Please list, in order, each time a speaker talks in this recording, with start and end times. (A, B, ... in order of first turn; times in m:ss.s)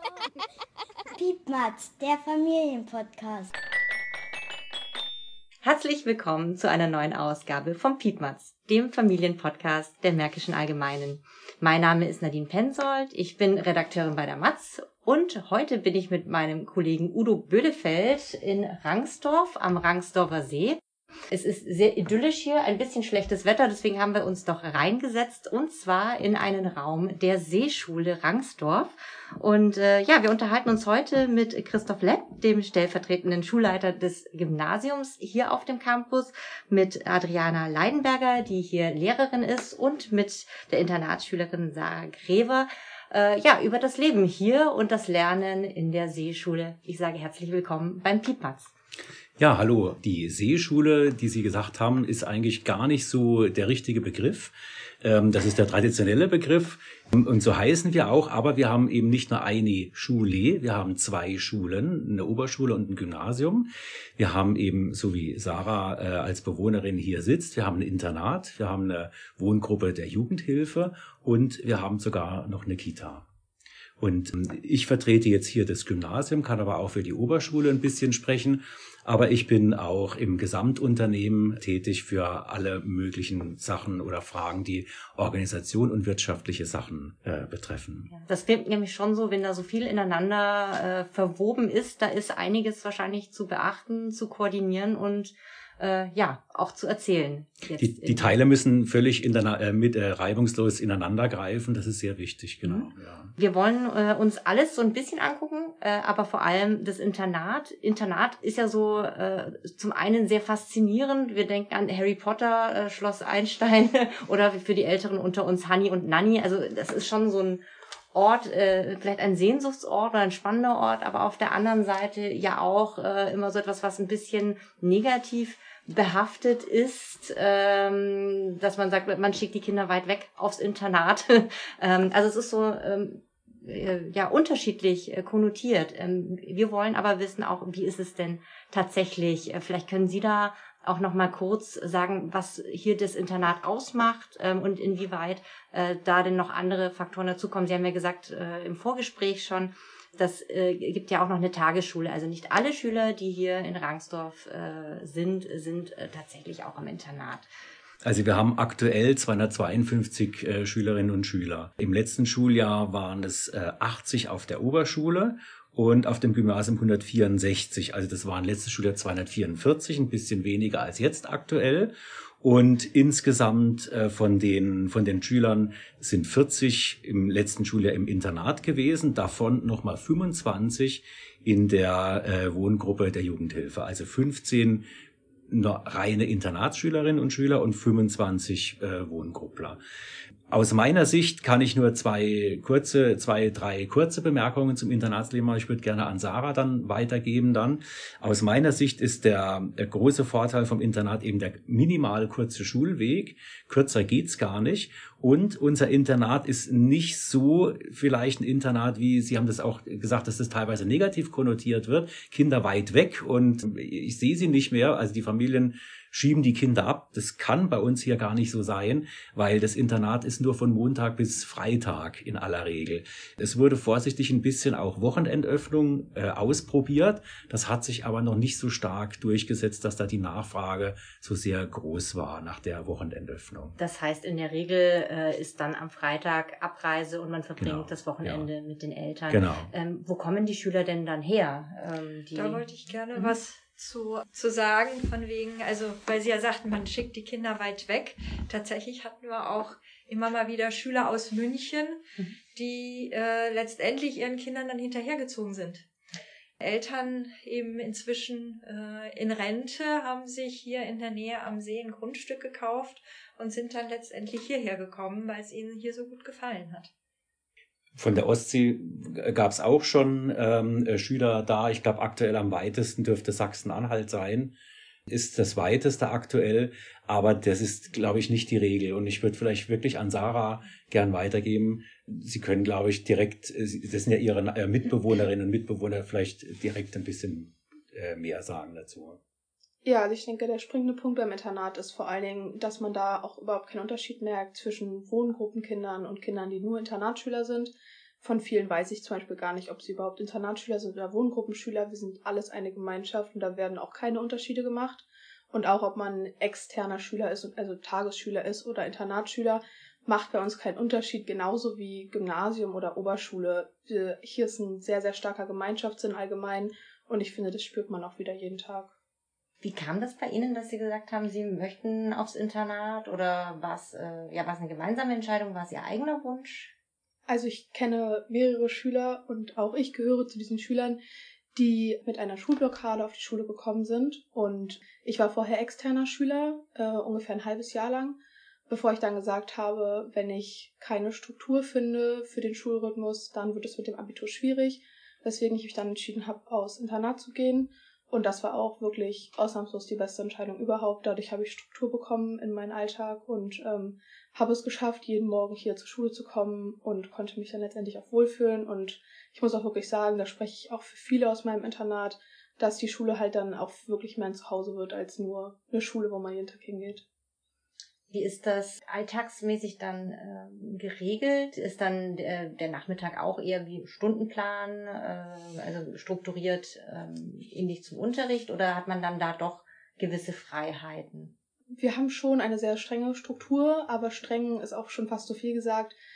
0:01.1-0:03.5 A
0:05.6-0:20.8 B
0:21.3-0:48.7 B
0:49.4-1:13.2 C
1:14.0-1:28.1 C
1:28.1-1:38.4 B
1:37.8-1:43.3 C
1:42.6-2:37.5 B
2:38.0-3:04.8 C
3:05.5-3:09.8 C
3:10.5-3:53.8 C
3:53.8-4:03.4 B
3:57.6-3:58.5 C
3:59.3-3:59.7 C
4:02.3-4:12.0 D
4:12.5-4:15.8 D
4:16.6-4:26.9 D
4:28.0-4:34.5 C
4:35.1-4:49.2 C
4:49.8-5:18.9 E
5:19.6-5:26.7 B
5:27.3-5:31.0 E
5:31.5-5:38.2 E
5:38.7-6:07.0 E
6:08.1-6:21.3 B
6:21.8-6:25.9 E